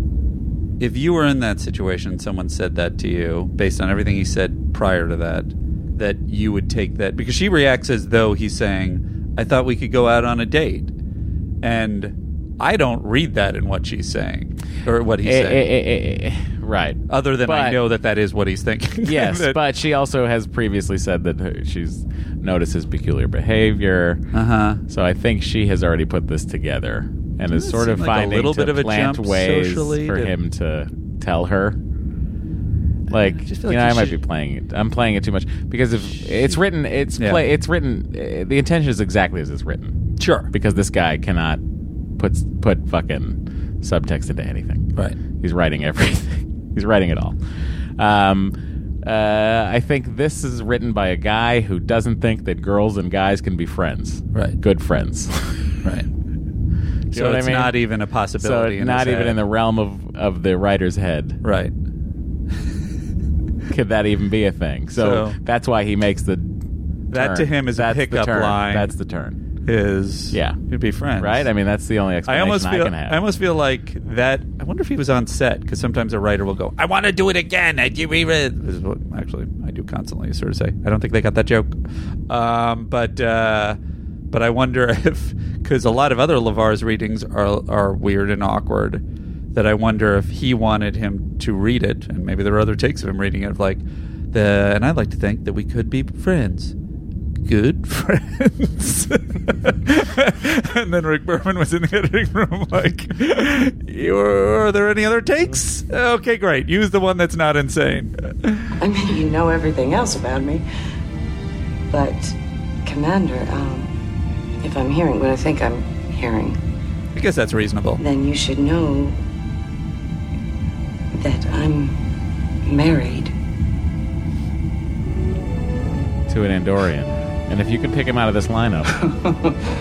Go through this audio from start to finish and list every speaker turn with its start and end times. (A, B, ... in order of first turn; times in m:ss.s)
0:00.8-0:10.9 A
0:11.6-0:15.6 A
0:15.2-0:17.8 B
0:17.1-0:19.6 A
0:19.0-0:24.2 B
0:24.3-0:24.8 A
0:24.9-0:31.8 B
0:27.5-0:30.3 A
0:33.1-0:40.0 B
0:33.1-0:34.2 A
0:36.3-0:36.6 A
0:40.2-0:40.5 A
0:40.5-0:41.6 B
0:42.2-0:47.4 B
0:48.0-0:55.7 B
0:57.1-0:57.8 B
0:57.1-0:59.4 A
0:58.4-1:01.4 B
1:01.4-1:01.7 A
1:03.7-1:06.6 B
1:05.0-1:05.4 A
1:07.1-1:08.9 A
1:07.1-1:09.4 B
1:09.6-1:11.5 A
1:10.3-1:10.6 B
1:11.2-1:13.2 B
1:12.3-1:21.8 A
1:22.3-1:23.8 A
1:24.3-1:29.0 A
1:29.5-1:36.7 A
1:37.4-1:48.6 A
1:48.8-1:50.6 C
1:51.9-1:54.0 C
1:54.6-1:56.6 C
1:57.2-1:58.0 A
1:58.0-1:59.2 C
2:01.1-2:02.0 C
2:02.6-2:03.3 C
2:06.3-2:09.1 B